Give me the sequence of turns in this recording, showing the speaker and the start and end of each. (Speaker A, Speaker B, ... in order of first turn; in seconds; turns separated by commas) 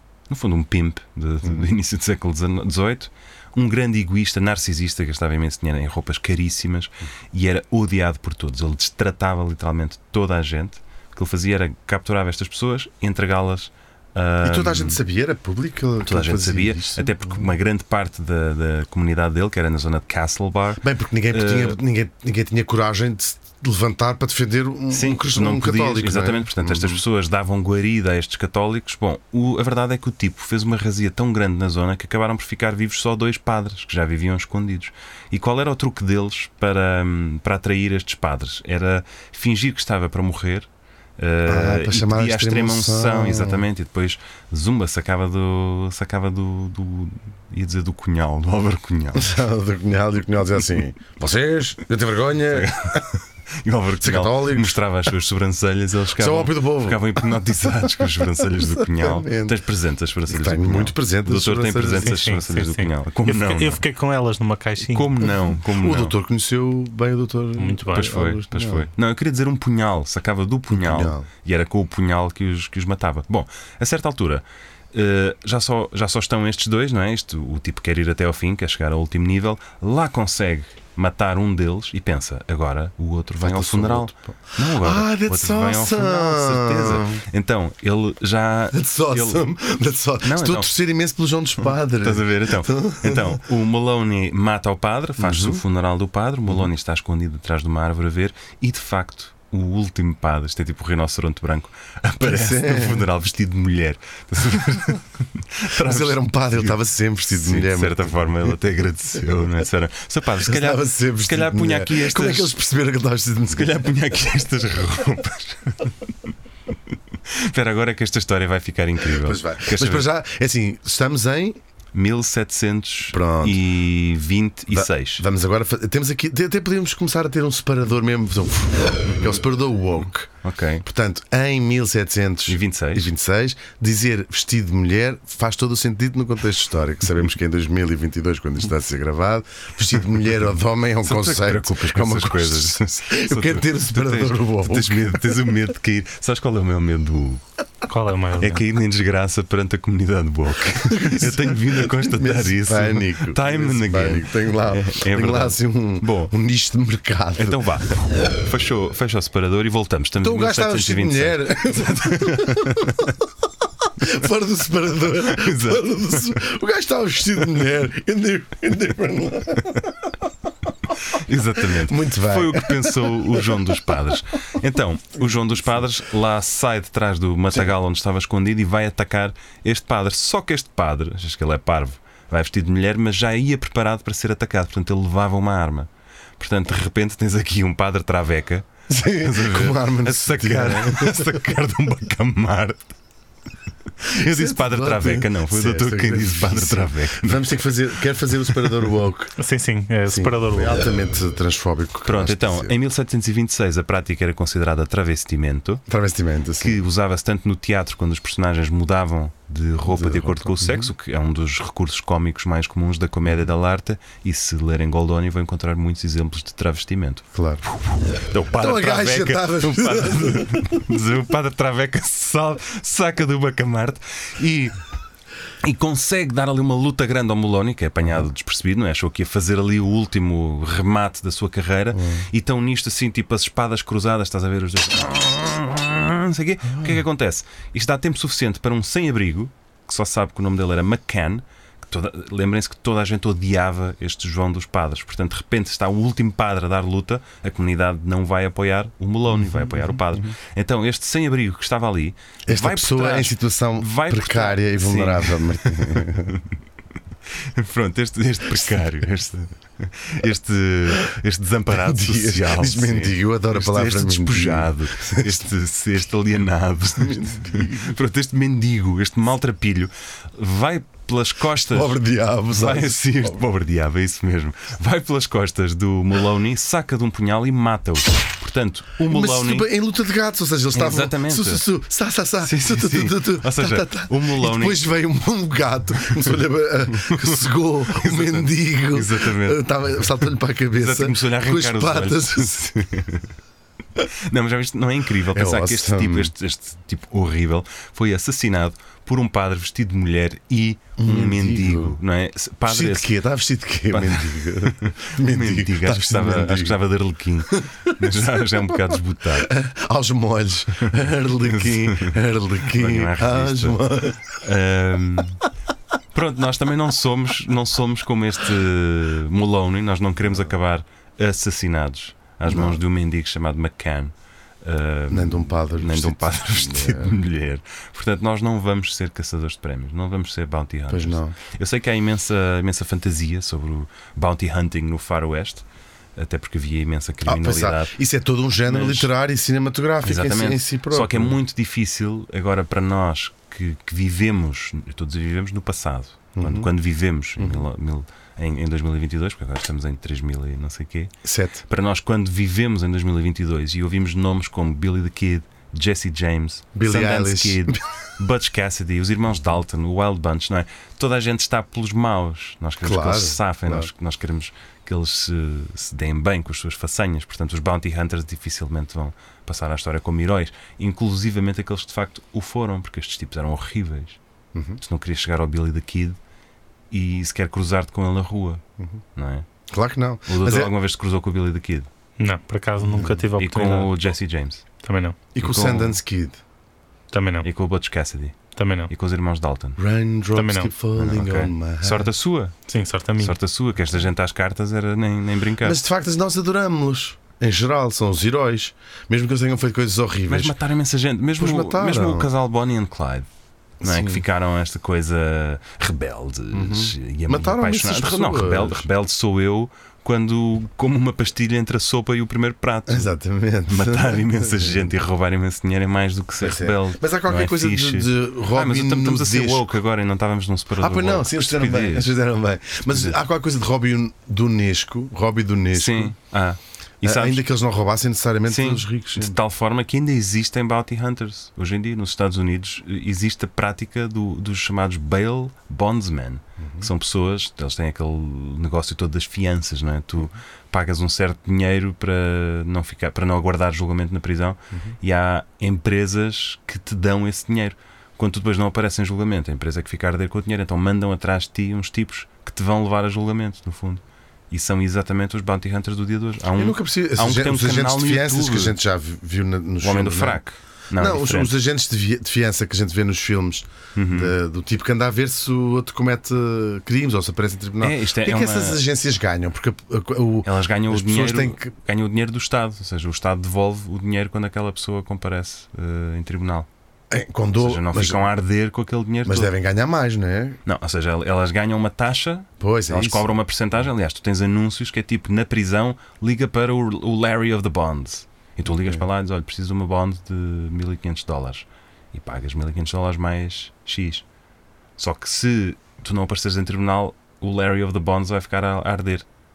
Speaker A: 0.3-15.0, Speaker B: 14.4-17.4, Speaker A: 16.0-21.8, Speaker B: 20.8-27.0, Speaker A: 24.9-49.4, Speaker B: 41.5-43.7, Speaker B: 49.1-53.1, Speaker A: 52.5-63.8, Speaker B: 54.0-54.8, Speaker B: 56.2-57.9, Speaker B: 58.4-59.6, Speaker B: 60.3-62.3, Speaker C: 62.0-65.2, Speaker A: 64.8-66.1, Speaker B: 65.7-68.9, Speaker C: 67.6-68.2, Speaker A: 67.9-89.5, Speaker B: 70.7-71.3, Speaker B: 83.4-87.2, Speaker B: 88.7-93.4, Speaker A: 90.2-90.7, Speaker A: 92.0-112.5, Speaker B: 95.2-95.6, Speaker B: 102.2-103.1, Speaker B: 105.8-108.6, Speaker B: 110.4-113.9, Speaker A: 113.5-115.9, Speaker A: 117.3-120.1, Speaker B: 119.1-121.6, Speaker A: 121.9-125.2, Speaker B: 123.1-123.7, Speaker B: 124.7-130.3, Speaker A: 130.4-130.8, Speaker B: 130.8-145.4, Speaker A: 132.5-133.1, Speaker A: 141.0-147.4, Speaker C: 147.9-148.6, Speaker A: 148.4-156.3, Speaker B: 150.7-157.7, Speaker A: 157.4-163.1, Speaker B: 160.2-163.2, Speaker B: 163.8-170.1, Speaker A: 165.2-166.4, Speaker A: 171.0-192.9, Speaker B: 171.6-173.8, Speaker B: 188.9-191.6, Speaker A: 194.0-197.7, Speaker B: 194.1-199.3, Speaker C: 199.4-200.9, Speaker B: 200.1-202.8, Speaker A: 202.1-205.8, Speaker B: 205.9-206.8, Speaker A: 206.6-224.8, Speaker B: 209.9-210.9, Speaker B: 217.3-217.6, Speaker B: 218.5-220.8, Speaker A: 225.6-256.5, Speaker B: 231.9-232.3, Speaker B: 236.7-237.0, Speaker B: 249.3-250.3, Speaker B: 252.5-256.4, Speaker A: 257.6-272.0, Speaker B: 261.7-265.5, Speaker B: 267.0-268.0, Speaker B: 271.6-273.4, Speaker A: 272.5-279.7, Speaker B: 279.0-292.7, Speaker A: 280.7-281.7, Speaker A: 282.4-284.9, Speaker A: 287.1-287.3, Speaker A: 287.9-289.6, Speaker A: 290.8-293.3, Speaker A: 294.3-303.1, Speaker B: 295.3-296.3, Speaker B: 301.0-302.0, Speaker B: 302.6-306.8, Speaker A: 303.9-309.6, Speaker B: 307.5-308.6, Speaker B: 309.4-314.2, Speaker A: 311.4-312.1, Speaker A: 312.7-315.4, Speaker A: 316.1-335.6, Speaker B: 322.5-322.8, Speaker B: 325.1-327.2, Speaker B: 330.9-331.4, Speaker A: 336.2-338.0, Speaker B: 337.2-341.4, Speaker A: 338.7-339.1, Speaker A: 340.0-351.1, Speaker B: 346.4-346.7, Speaker B: 347.4-347.6, Speaker B: 351.2-351.6, Speaker A: 351.7-374.2, Speaker B: 356.8-357.8, Speaker B: 362.8-363.9, Speaker B: 374.5-374.8, Speaker A: 374.8-376.2, Speaker A: 376.9-378.6, Speaker A: 379.2-379.5, Speaker B: 379.7-380.7, Speaker A: 380.3-381.9, Speaker C: 382.2-383.9, Speaker B: 382.8-383.2, Speaker A: 383.4-384.6, Speaker C: 384.8-385.2, Speaker B: 385.4-386.4, Speaker A: 385.4-386.0, Speaker C: 387.1-387.5, Speaker A: 387.4-388.4, Speaker C: 388.6-388.9, Speaker A: 388.9-389.8, Speaker B: 389.8-392.1, Speaker C: 390.4-390.7, Speaker A: 391.0-392.6, Speaker C: 392.7-393.4, Speaker A: 393.2-395.8, Speaker B: 395.6-400.6, Speaker A: 400.3-403.3, Speaker B: 401.4-402.3, Speaker B: 403.8-404.2, Speaker A: 403.8-413.1, Speaker B: 406.5-408.9, Speaker B: 412.9-414.9, Speaker A: 413.7-422.1, Speaker B: 416.4-419.7, Speaker B: 420.8-426.1, Speaker A: 422.9-423.2, Speaker A: 425.7-427.4, Speaker B: 427.0-429.4, Speaker A: 428.5-458.8, Speaker B: 436.6-436.9, Speaker B: 456.6-460.4, Speaker A: 459.8-461.6, Speaker B: 461.0-471.7, Speaker A: 463.9-464.4, Speaker A: 467.8-468.8, Speaker A: 470.4-476.7, Speaker B: 477.1-478.3, Speaker A: 477.6-479.5, Speaker B: 479.2-480.6, Speaker A: 480.6-494.2, Speaker B: 482.6-483.4, Speaker B: 488.6-489.1, Speaker A: 495.0-499.3